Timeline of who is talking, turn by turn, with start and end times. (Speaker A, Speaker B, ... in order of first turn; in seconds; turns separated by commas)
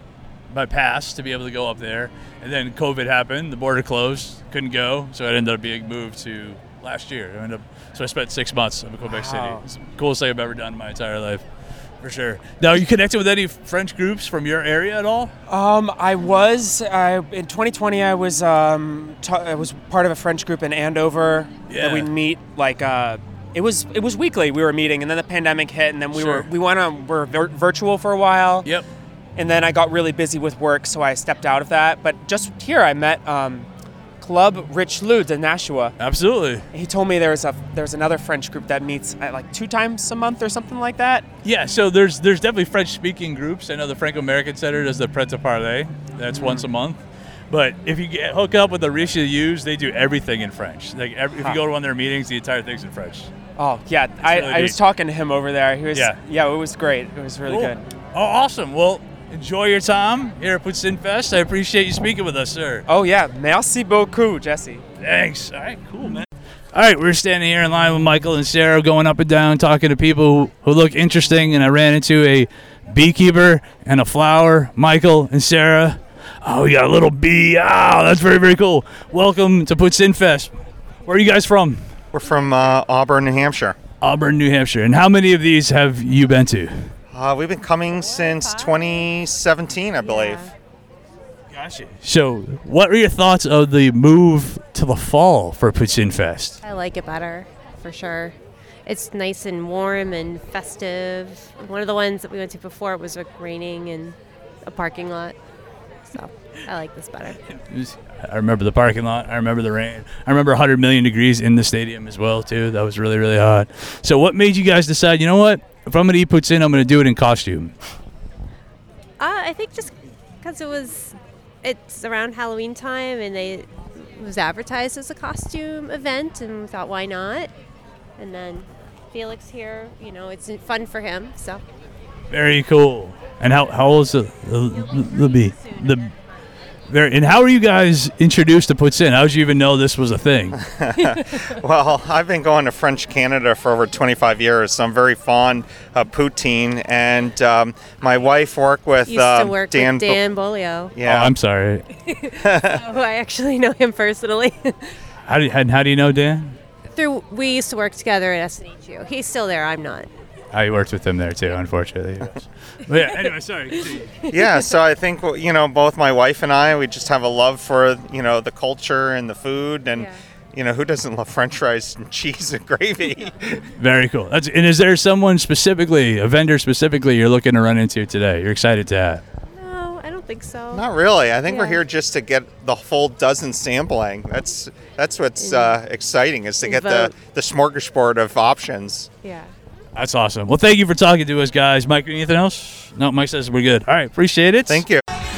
Speaker A: 0.5-11.4, Speaker B: 9.1-9.6, Speaker A: 12.0-15.3, Speaker B: 15.5-28.7, Speaker A: 21.7-22.1, Speaker A: 26.1-26.5, Speaker B: 29.4-33.7, Speaker B: 34.2-36.0, Speaker A: 36.0-36.6, Speaker B: 36.7-41.3, Speaker A: 41.4-53.3, Speaker B: 46.3-46.6, Speaker B: 53.6-57.9, Speaker A: 54.2-54.8, Speaker A: 55.9-56.2, Speaker A: 57.5-62.9, Speaker B: 62.9-64.8, Speaker A: 65.0-80.5, Speaker A: 81.1-81.9, Speaker C: 82.1-83.8, Speaker A: 84.0-86.9, Speaker C: 87.1-90.5, Speaker D: 88.0-89.0, Speaker D: 90.0-90.5, Speaker A: 91.5-96.6, Speaker D: 96.6-98.3, Speaker D: 98.9-105.4, Speaker D: 106.1-107.4, Speaker A: 107.6-117.7, Speaker D: 119.2-127.5, Speaker D: 128.2-131.6, Speaker A: 132.3-136.1, Speaker A: 136.9-140.6, Speaker C: 140.6-150.2, Speaker D: 149.1-150.9, Speaker C: 150.9-151.3, Speaker A: 151.0-151.8, Speaker D: 151.9-154.9, Speaker C: 152.4-152.8, Speaker A: 155.3-156.6, Speaker D: 156.9-160.1, Speaker A: 160.5-164.1, Speaker D: 163.7-164.7, Speaker C: 164.3-173.6, Speaker A: 173.8-179.2, Speaker D: 179.5-180.8, Speaker C: 180.7-189.1, Speaker D: 181.4-181.8, Speaker D: 185.4-185.8, Speaker D: 186.6-187.2, Speaker D: 189.2-189.5, Speaker A: 189.9-194.8, Speaker C: 194.7-195.0